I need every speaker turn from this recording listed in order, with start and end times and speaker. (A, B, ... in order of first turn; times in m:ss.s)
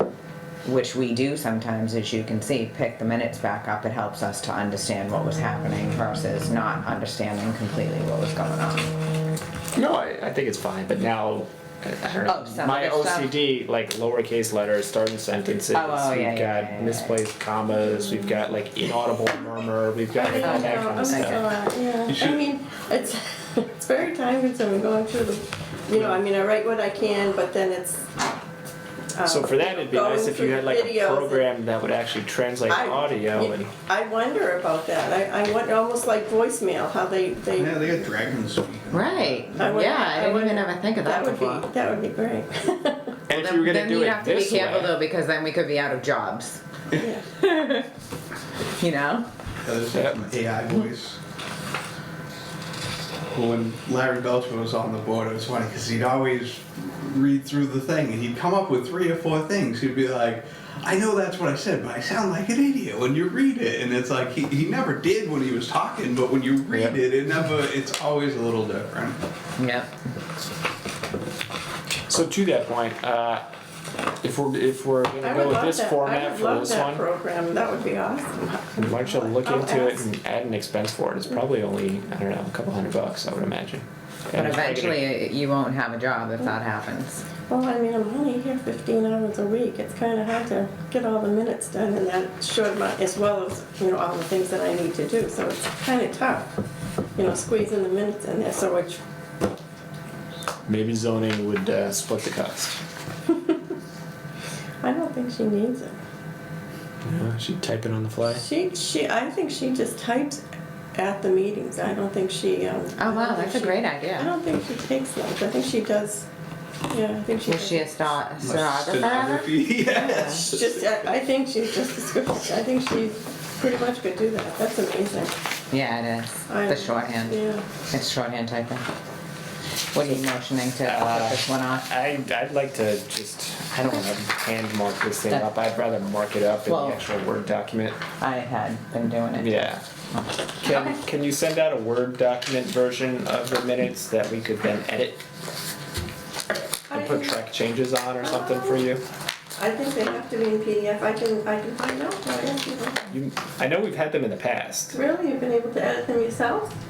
0:00.6-0:08.9 A
0:09.8-0:21.4 B
0:12.3-0:13.3 A
0:15.7-0:17.1 A
0:20.1-0:28.1 C
0:20.4-0:21.3 A
0:22.1-0:22.4 D
0:29.2-0:31.5 C
0:29.3-0:33.7 B
0:32.7-0:38.1 C
0:37.6-0:39.4 D
0:38.9-0:41.7 A
0:39.6-0:43.1 C
0:43.3-0:44.9 B
0:43.3-0:46.6 A
0:46.9-0:47.3 C
0:47.4-0:47.9 A
0:48.8-0:49.3 A
0:49.6-0:51.2 D
0:53.3-1:09.2 D
1:06.7-1:07.0 B
1:09.6-1:09.9 A
1:12.1-1:13.4 B
1:14.2-1:17.0 B
1:15.2-1:20.1 C
1:18.8-1:25.0 B
1:24.4-1:27.2 A
1:27.5-1:36.5 C
1:37.2-1:39.0 C
1:40.7-1:42.8 B
1:43.3-1:43.6 C
1:44.8-1:46.0 C
1:47.0-1:48.4 B
1:48.3-1:50.4 C
1:51.0-1:56.3 C
1:53.0-1:54.3 A
1:56.9-1:58.1 C
1:57.5-2:00.4 A
1:58.4-2:00.8 D
1:59.9-2:05.3 C
2:05.7-2:08.8 A
2:06.5-2:07.6 C
2:09.9-2:11.9 A
2:10.8-2:18.0 B
2:16.7-2:17.0 A
2:18.2-2:19.6 A
2:19.4-2:19.8 B
2:20.6-2:25.2 B
2:26.9-2:27.4 C
2:26.9-2:29.0 B
2:28.2-2:28.9 C
2:29.6-2:33.1 C
2:33.1-2:35.0 B
2:34.9-2:36.7 C